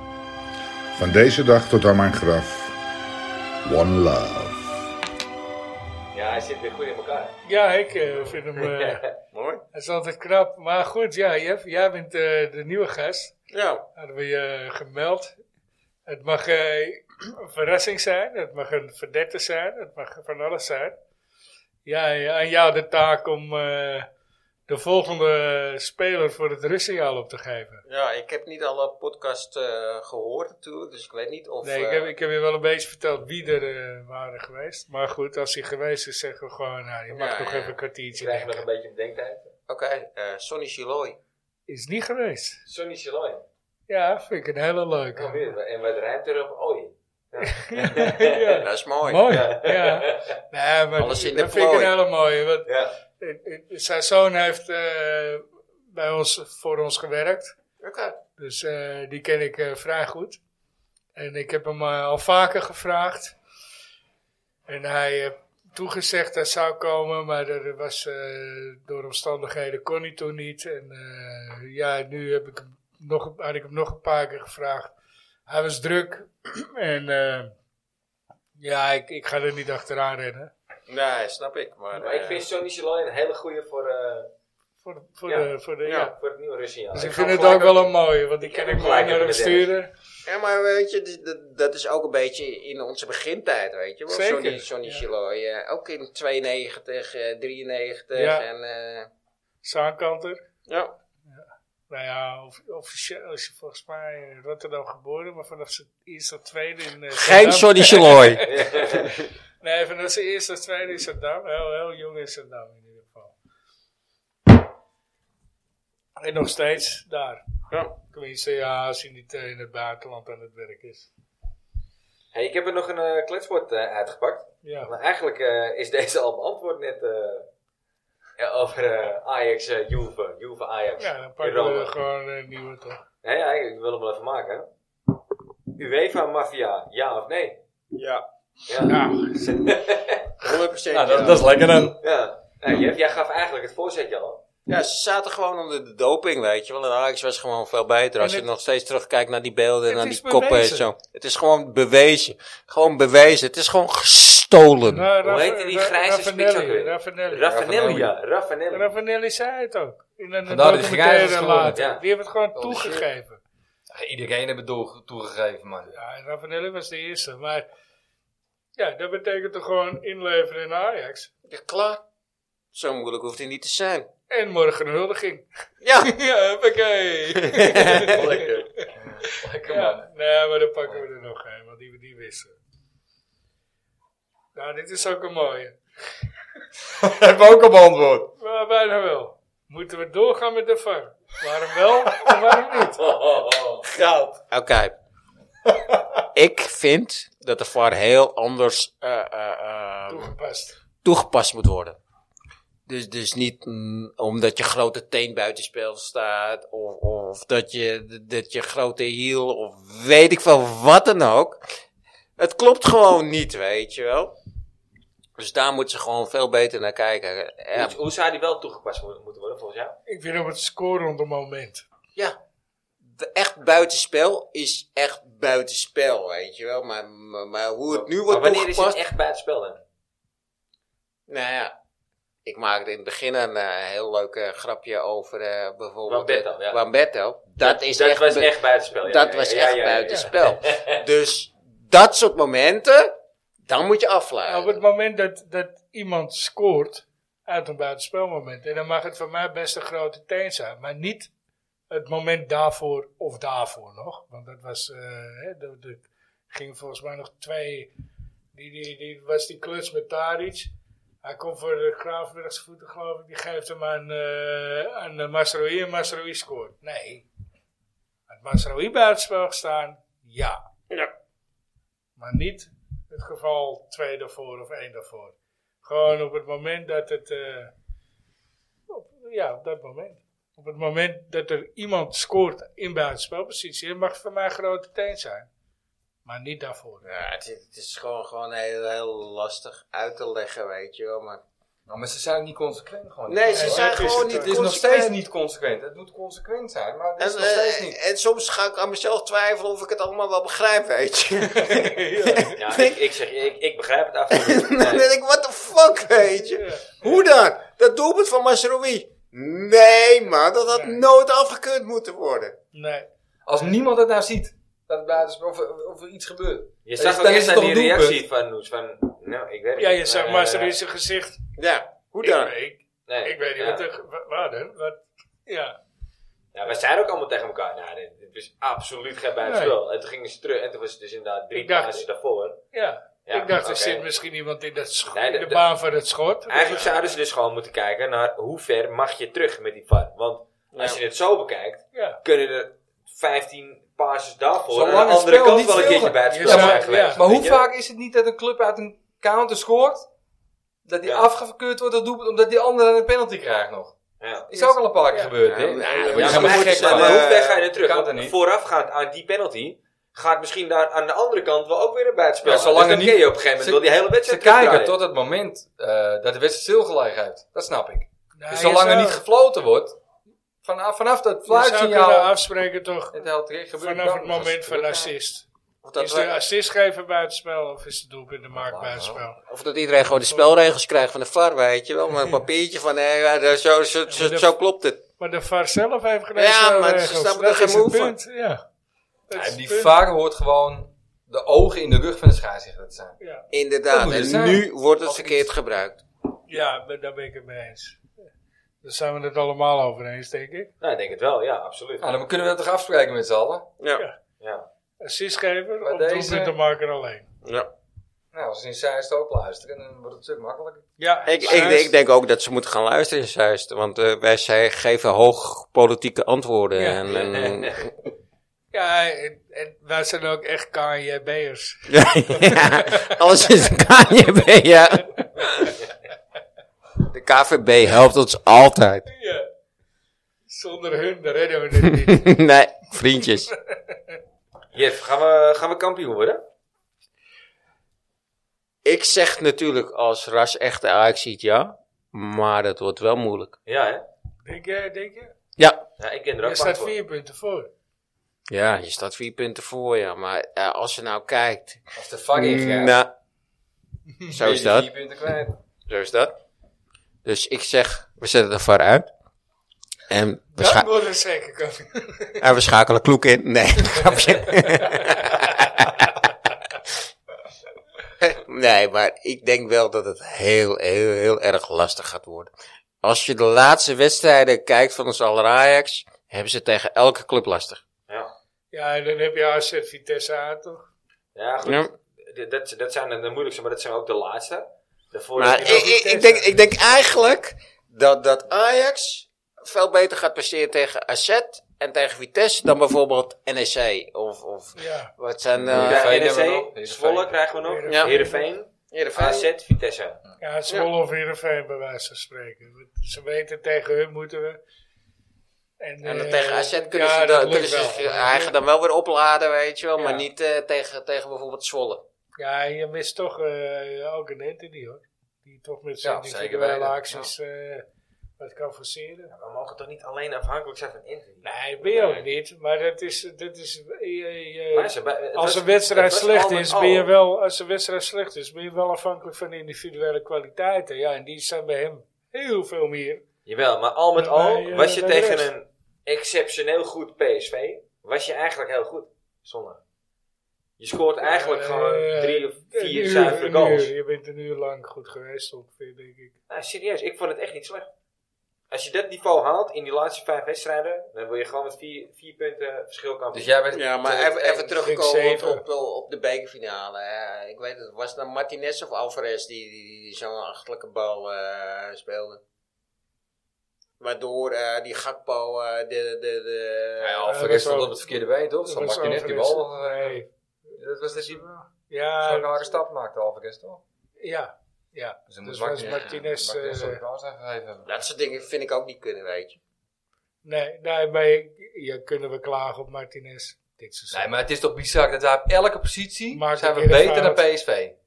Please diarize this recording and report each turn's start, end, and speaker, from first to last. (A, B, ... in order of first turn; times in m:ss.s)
0:00.9-0:02.8 A
0:03.6-0:04.8 A
0:06.1-0:07.4 B
0:07.5-0:09.0 C
0:08.1-0:09.0 B
0:09.3-0:09.6 D
0:09.7-0:13.3 C
0:13.5-0:13.8 D
0:14.0-0:15.3 C
0:16.1-0:21.0 C
0:21.9-0:24.1 C
0:24.7-0:27.8 C
0:27.9-0:32.1 D
0:31.6-0:38.6 C
0:37.1-0:37.8 D
0:38.2-0:39.5 B
0:39.7-0:41.2 D
0:41.7-0:42.6 C
0:42.7-0:43.4 B
0:43.9-0:45.4 C
0:45.2-0:48.6 B
0:47.4-0:52.7 C
0:48.6-0:49.2 D
0:49.2-0:50.4 B
0:51.0-0:51.9 D
0:52.7-0:52.9 B
0:53.2-0:57.5 C
0:57.8-0:58.2 D
0:58.4-1:00.4 C
1:01.2-1:03.3 C
1:04.7-1:14.9 C
1:15.5-1:17.5 C
1:18.6-1:20.5 C
1:20.9-1:22.4 D
1:21.9-1:24.3 B
1:24.8-1:26.1 C
1:25.8-1:26.1 D
1:26.1-1:27.9 B
1:26.9-1:29.9 C
1:28.5-1:29.7 B
1:30.3-1:39.1 D
1:34.1-1:35.1 C
1:38.2-1:38.5 C
1:39.6-1:40.4 C
1:40.7-1:40.9 D
1:41.3-1:53.3 C
1:47.1-1:49.3 D
1:48.4-1:49.1 B
1:56.2-1:57.4 C
1:57.9-2:01.1 C
2:02.3-2:07.5 B
2:04.6-2:04.9 C
2:08.4-2:12.0 B
2:11.0-2:13.0 C
2:13.2-2:14.7 B
2:15.8-2:17.6 B
2:17.9-2:18.2 D
2:18.7-2:20.3 B
2:18.8-2:19.4 C
2:20.4-2:21.5 D
2:20.9-2:22.0 E
2:22.0-2:24.4 B
2:24.7-2:35.1 D
2:28.2-2:28.5 C
2:29.9-2:30.9 C
2:34.9-2:37.5 C
2:35.2-2:38.9 B
2:37.4-2:38.1 E
2:38.7-2:43.4 C
2:40.5-2:41.8 E
2:41.7-2:42.0 B
2:42.5-2:43.0 E
2:43.9-2:45.9 E
2:45.9-2:47.7 C
2:48.8-2:51.3 C
2:51.5-2:52.0 D
2:52.7-2:54.1 D
2:54.3-2:55.4 C
2:55.8-2:56.1 D
2:56.0-2:58.9 C
2:57.4-2:58.3 D
2:57.9-3:00.1 E
2:59.6-3:02.5 C
3:04.6-3:05.8 C
3:06.9-3:08.3 E
3:08.4-3:13.1 C
3:13.0-3:13.9 B
3:14.5-3:14.9 D
3:16.3-3:20.3 D
3:20.1-3:20.8 C
3:21.0-3:22.0 D
3:22.9-3:31.6 D
3:32.4-3:34.4 D
3:35.4-3:38.0 D
3:37.8-3:40.0 B
3:40.1-3:41.8 C
3:43.1-3:49.0 D
3:47.9-3:49.8 B
3:51.3-3:51.7 D
3:52.4-4:03.1 D
3:56.1-3:56.8 B
3:57.6-4:01.0 B
4:03.6-4:04.8 D
4:04.5-4:11.3 C
4:11.9-4:17.9 C
4:18.5-4:20.7 C
4:21.2-4:27.3 C
4:28.3-4:30.6 C
4:32.2-4:37.7 C
4:38.9-4:45.5 C
4:46.2-4:47.1 C
4:47.0-4:51.4 D
4:51.9-4:58.0 E
4:53.3-4:55.1 D
4:53.5-4:54.6 C
4:57.2-5:03.0 D
5:01.7-5:02.6 C
5:02.6-5:05.1 B
5:04.3-5:12.6 D
5:06.2-5:07.2 C
5:10.7-5:11.0 C
5:12.7-5:13.1 C
5:13.5-5:18.2 E
5:16.9-5:20.8 B
5:19.8-5:21.4 C
5:21.6-5:22.5 D
5:22.2-5:25.8 C
5:23.1-5:23.8 B
5:26.5-5:32.6 B
5:29.4-5:29.8 C
5:31.5-5:32.0 C
5:32.7-5:37.1 C
5:33.3-5:34.1 B
5:35.1-5:35.6 B
5:36.5-5:47.7 B
5:40.7-5:41.0 D
5:41.9-5:42.2 C
5:44.7-5:50.1 E
5:46.3-5:47.3 C
5:50.8-5:54.0 E
5:54.2-5:54.5 B
5:54.5-5:58.4 E
5:54.5-5:55.3 C
5:55.4-5:57.6 D
5:56.0-5:56.7 C
5:56.1-6:05.0 B
6:02.4-6:10.0 E
6:08.4-6:09.2 C
6:10.6-6:12.3 E
6:11.5-6:13.2 C
6:13.1-6:15.1 E
6:13.8-6:15.5 C
6:15.8-6:16.3 D
6:16.0-6:19.4 C
6:18.5-6:19.2 E
6:19.5-6:25.0 D
6:20.1-6:20.5 C
6:24.1-6:24.5 C
6:25.2-6:28.6 C
6:26.4-6:28.2 D
6:29.3-6:30.0 C
6:29.3-6:33.2 E
6:33.5-6:36.0 D
6:33.9-6:35.5 E
6:36.5-6:38.0 C
6:38.8-6:40.7 C
6:40.8-6:42.2 B
6:42.0-6:43.7 E
6:43.8-6:44.0 D
6:44.4-6:44.7 B
6:45.0-6:47.3 C
6:45.8-6:46.6 E
6:47.4-6:47.7 D
6:48.3-6:50.9 E
6:51.0-6:52.0 C
6:51.3-6:57.9 D
6:56.8-6:57.1 C
6:57.1-6:57.8 B
6:58.7-7:05.7 C
7:01.9-7:05.8 D
7:07.0-7:09.1 D
7:09.1-7:09.5 C
7:10.5-7:12.3 C
7:11.8-7:13.5 D
7:13.5-7:14.2 C
7:14.7-7:16.4 B
7:18.8-7:23.6 D
7:23.7-7:24.0 B
7:24.4-7:25.3 C
7:25.6-7:25.8 D
7:26.0-7:27.0 B
7:26.4-7:27.7 C
7:28.5-7:33.1 D
7:32.0-7:33.0 E
7:34.3-7:34.9 D
7:34.4-7:35.6 E
7:35.9-7:36.3 D
7:37.2-7:39.1 D
7:40.1-7:40.9 D
7:40.6-7:42.5 C
7:42.4-7:46.3 D
7:44.6-7:45.5 C
7:48.2-7:52.5 D
7:53.0-7:57.8 D
7:58.7-8:00.9 C
8:01.4-8:05.9 B
8:01.6-8:01.9 D
8:05.4-8:16.1 D
8:05.5-8:07.2 C
8:14.8-8:15.1 C
8:15.6-8:17.4 E
8:15.7-8:20.2 B
8:17.6-8:18.5 C
8:17.9-8:18.2 D
8:18.9-8:19.5 D
8:20.4-8:24.6 C
8:25.8-8:28.6 C
8:26.0-8:32.0 D
8:32.4-8:37.8 C
8:36.0-8:37.3 E
8:38.4-8:39.3 C
8:39.3-8:41.5 B
8:41.4-8:53.2 C
8:41.9-8:42.2 D
8:44.7-8:47.1 B
8:53.5-8:59.8 B
8:54.2-8:55.5 C
9:00.8-9:03.9 B
9:01.2-9:06.3 C
9:06.5-9:07.9 B
9:08.7-9:13.6 B
9:13.3-9:14.7 E
9:13.7-9:22.4 D
9:14.8-9:15.6 C
9:24.0-9:27.2 D
9:27.0-9:30.2 E
9:27.3-9:28.1 C
9:28.6-9:32.7 C
9:30.8-9:31.5 E
9:32.2-9:33.8 E
9:34.2-9:37.0 C
9:35.3-9:37.9 E
9:35.8-9:36.2 D
9:37.8-9:39.6 D
9:40.4-9:44.3 C
9:44.1-9:48.0 E
9:46.3-9:47.4 C